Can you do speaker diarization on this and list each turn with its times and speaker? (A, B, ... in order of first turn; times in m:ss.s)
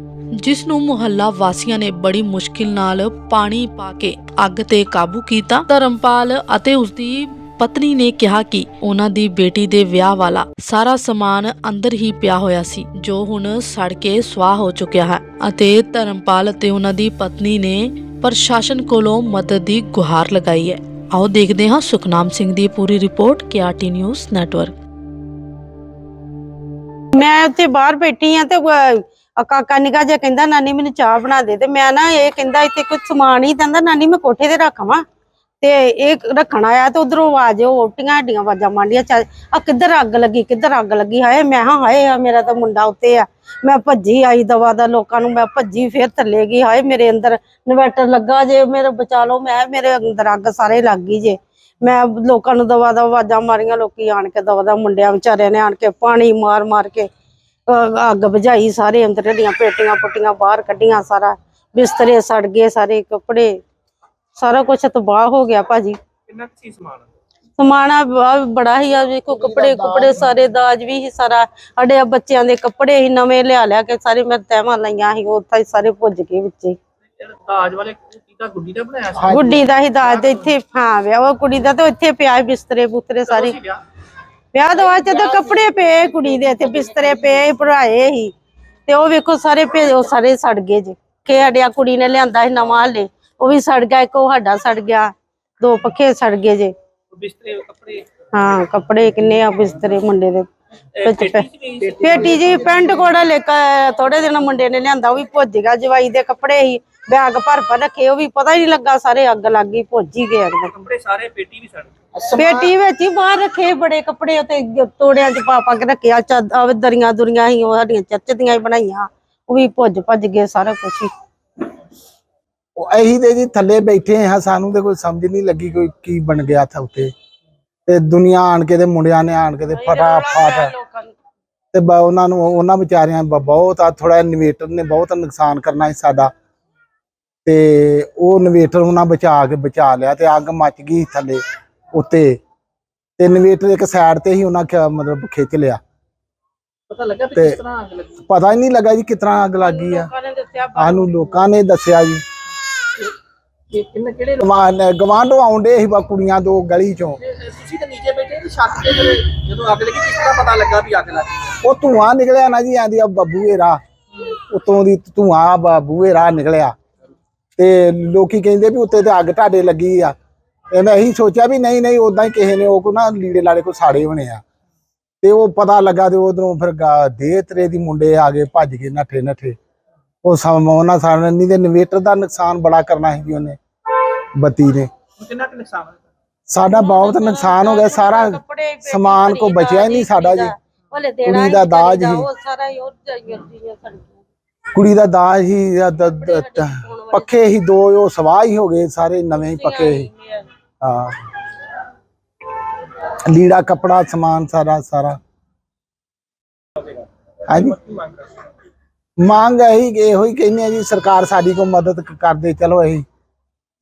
0:00.4-0:24.8 A
0:27.2-0:35.0 B
0:35.6-0:57.1 B
0:57.7-1:03.5 B
1:04.4-1:06.0 B
1:06.3-1:07.1 C
1:07.6-1:16.8 B
1:09.4-1:10.2 D
1:17.2-1:19.4 C
1:19.2-1:19.6 D
1:19.3-1:23.6 B
1:20.0-1:20.5 C
1:23.3-1:23.8 C
1:24.5-1:28.3 B
1:24.9-1:25.7 C
1:28.9-1:36.7 B
1:37.1-1:38.1 C
1:38.3-1:40.5 B
1:41.0-1:43.1 C
1:41.0-1:50.8 B
1:50.8-1:52.5 C
1:52.3-2:01.1 B
2:02.8-2:07.1 D
2:07.9-2:10.7 D
2:09.7-2:11.1 B
2:11.7-2:16.3 D
2:17.4-2:21.4 D
2:21.9-2:22.4 D
2:23.2-2:25.8 D
2:26.9-2:28.2 C
2:28.2-2:30.1 D
2:29.6-2:31.4 B
2:30.8-2:32.2 D
2:33.7-2:34.4 C
2:34.4-2:37.2 D
2:37.3-2:41.5 C
2:41.6-2:46.8 D
2:47.6-2:50.2 D
2:50.7-2:54.4 D
2:55.2-2:59.6 D
3:00.2-3:03.6 D
3:04.4-3:04.9 D
3:05.2-3:06.0 C
3:06.5-3:10.5 D
3:06.6-3:14.2 B
3:11.2-3:12.3 D
3:14.7-3:20.1 D
3:16.0-3:17.4 B
3:19.4-3:20.5 B
3:20.8-3:21.2 D
3:23.1-3:25.2 D
3:27.5-3:27.8 D
3:27.9-3:28.2 C
3:29.2-3:33.0 D